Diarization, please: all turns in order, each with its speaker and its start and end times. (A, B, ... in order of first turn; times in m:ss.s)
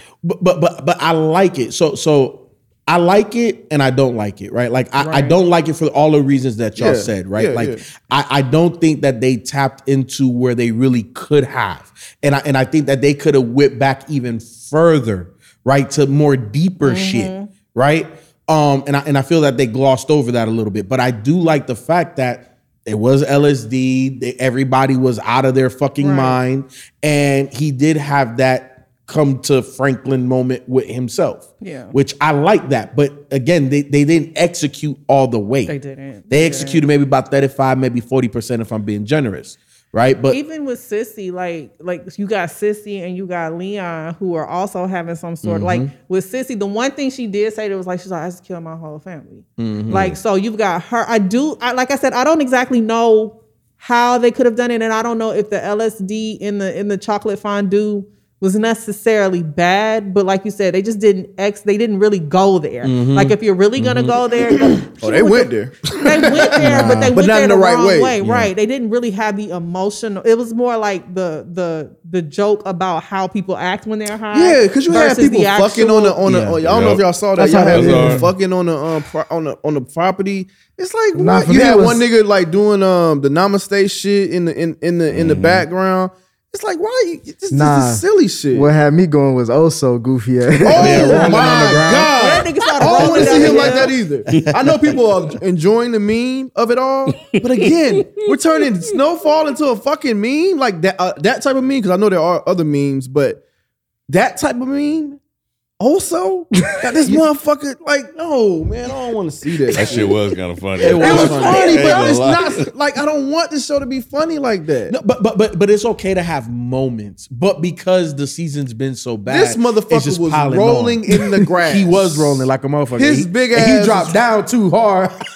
0:00.2-0:35.8 A
0:05.0-0:05.4 B
0:06.8-0:07.8 C
0:16.8-0:17.5 B
0:26.0-0:26.4 B
0:31.6-0:32.0 B
0:35.7-0:36.8 B
0:36.3-0:40.4 A
0:40.3-1:16.2 B
0:45.4-0:45.9 A
0:49.6-0:50.2 A
1:02.8-1:04.2 A
1:05.0-1:08.2 C
1:06.6-1:07.1 A
1:08.2-1:08.5 A
1:14.3-1:28.7 C
1:16.3-1:16.6 A
1:16.6-1:17.1 D
1:17.4-1:18.3 E
1:17.7-1:18.3 D
1:21.2-1:22.0 E
1:25.1-1:25.6 D
1:27.5-1:31.7 E
1:30.6-1:43.4 C
1:30.8-1:33.8 A
1:32.1-1:33.9 B
1:33.3-1:33.7 E
1:37.2-1:37.4 D
1:44.1-1:45.2 C
1:45.8-1:50.3 C
1:46.9-1:47.2 E
1:49.7-1:52.7 D
1:50.8-1:52.1 A
1:50.8-1:55.0 C
1:54.9-2:01.0 A
1:59.3-2:04.2 C
2:01.6-2:05.1 A